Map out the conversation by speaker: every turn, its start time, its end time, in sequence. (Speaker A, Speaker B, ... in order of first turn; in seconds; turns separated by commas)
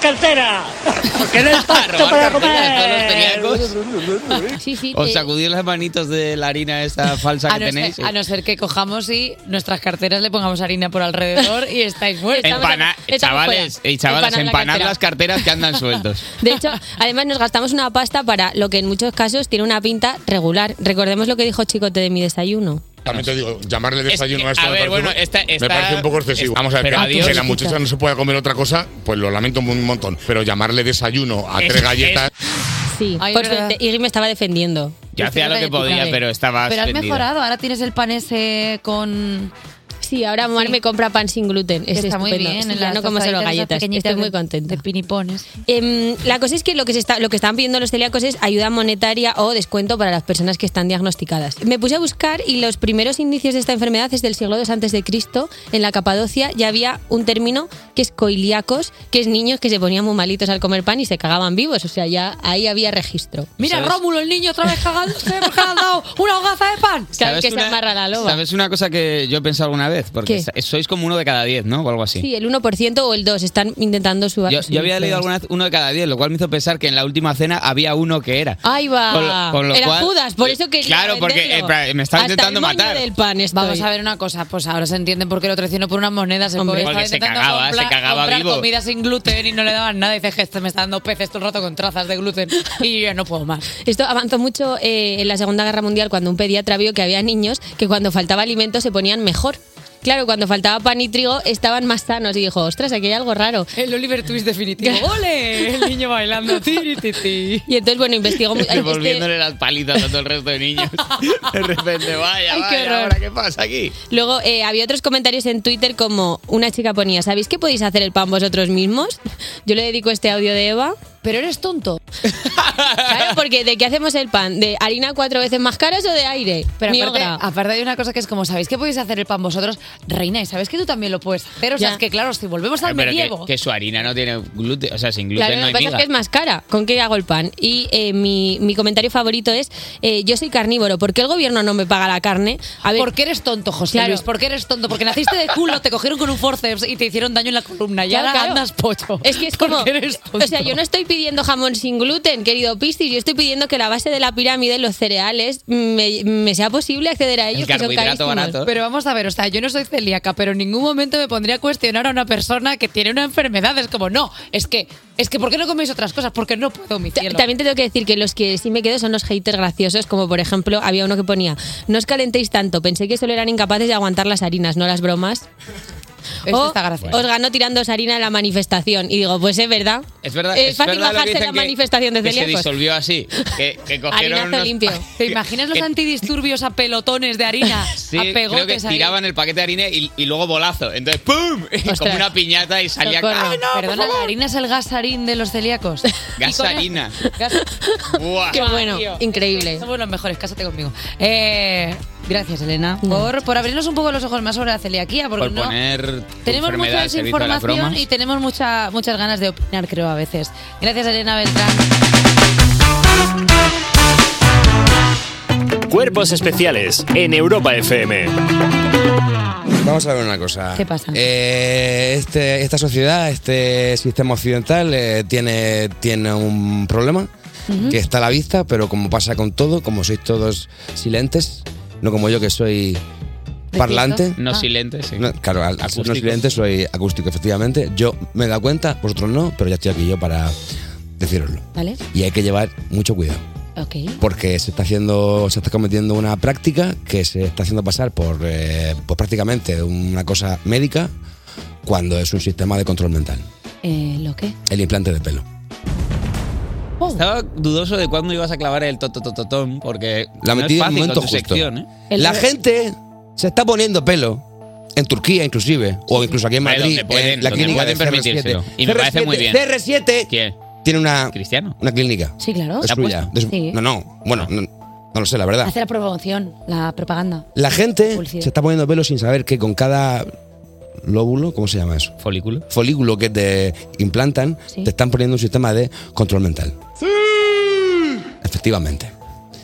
Speaker A: 1.3-3.8, Speaker B: 4.5-5.3, Speaker A: 4.9-8.1, Speaker C: 7.5-12.8, Speaker B: 12.3-14.9, Speaker A: 12.4-16.2, Speaker B: 16.4-22.8, Speaker D: 23.0-32.3, Speaker A: 24.1-27.5, Speaker B: 27.0-27.6, Speaker C: 27.1-27.5, Speaker A: 31.6-32.3, Speaker B: 32.9-35.0, Speaker C: 33.2-33.8, Speaker A: 35.1-37.3, Speaker C: 35.2-39.5, Speaker B: 40.0-44.8, Speaker C: 40.5-40.8, Speaker C: 41.9-45.5, Speaker B: 45.7-63.5, Speaker C: 63.6-67.1, Speaker A: 63.6-64.0, Speaker B: 67.2-68.4, Speaker A: 67.2-72.2, Speaker B: 72.2-75.2, Speaker A: 74.5-83.0, Speaker C: 78.7-79.4, Speaker B: 78.7-83.8, Speaker C: 83.5-93.7, Speaker B: 86.5-86.9, Speaker A: 86.8-88.7, Speaker B: 93.8-103.7, Speaker C: 103.8-107.6, Speaker B: 104.8-105.1, Speaker B: 107.7-109.2, Speaker A: 108.6-113.9, Speaker C: 112.5-113.1, Speaker B: 114.1-121.0, Speaker C: 121.2-122.0, Speaker A: 122.6-123.1, Speaker B: 123.0-127.4, Speaker C: 126.8-133.5, Speaker A: 132.8-136.0, Speaker B: 135.3-143.1, Speaker C: 142.9-150.8, Speaker B: 143.9-144.2, Speaker B: 148.1-148.6, Speaker B: 149.2-158.6, Speaker A: 157.5-158.7, Speaker C: 158.7-167.5, Speaker B: 167.1-175.5, Speaker C: 176.4-177.2, Speaker B: 176.5-182.7, Speaker A: 180.2-185.9, Speaker B: 184.1-185.1, Speaker C: 185.1-189.1, Speaker A: 188.0-193.6, Speaker B: 191.9-192.3, Speaker B: 193.1-194.2, Speaker C: 193.2-197.7, Speaker A: 196.4-197.2, Speaker B: 197.8-199.8, Speaker A: 198.1-198.6, Speaker C: 198.5-205.7, Speaker B: 203.0-203.3, Speaker A: 205.4-208.0, Speaker C: 206.4-211.9, Speaker E: 215.9-218.3, Speaker F: 219.8-227.3, Speaker C: 220.8-221.2, Speaker C: 227.7-228.0, Speaker F: 227.8-233.0, Speaker F: 233.7-234.4, Speaker C: 233.7-234.7, Speaker A: 234.4-235.3, Speaker F: 235.2-240.5, Speaker A: 235.8-236.5, Speaker F: 241.2-243.4, Speaker C: 241.7-242.0, Speaker C: 243.8-244.2, Speaker F: 244.2-251.1, Speaker F: 251.8-253.4, Speaker C: 253.8-254.6, Speaker F: 254.7-255.4, Speaker A: 257.1-261.9, Speaker F: 260.4-264.4, Speaker C: 262.1-262.4, Speaker F: 264.9-270.3, Speaker A: 266.6-269.6, Speaker A: 270.3-270.6, Speaker F: 270.8-275.7, Speaker A: 271.3-271.7, Speaker C: 272.4-272.9, Speaker A: 272.8-273.2, Speaker C: 273.4-273.8, Speaker C: 275.6-277.5, Speaker F: 277.5-280.3, Speaker C: 278.1-278.5, Speaker F: 281.0-282.1, Speaker A: 282.2-282.6, Speaker F: 282.7-286.8, Speaker F: 288.4-289.1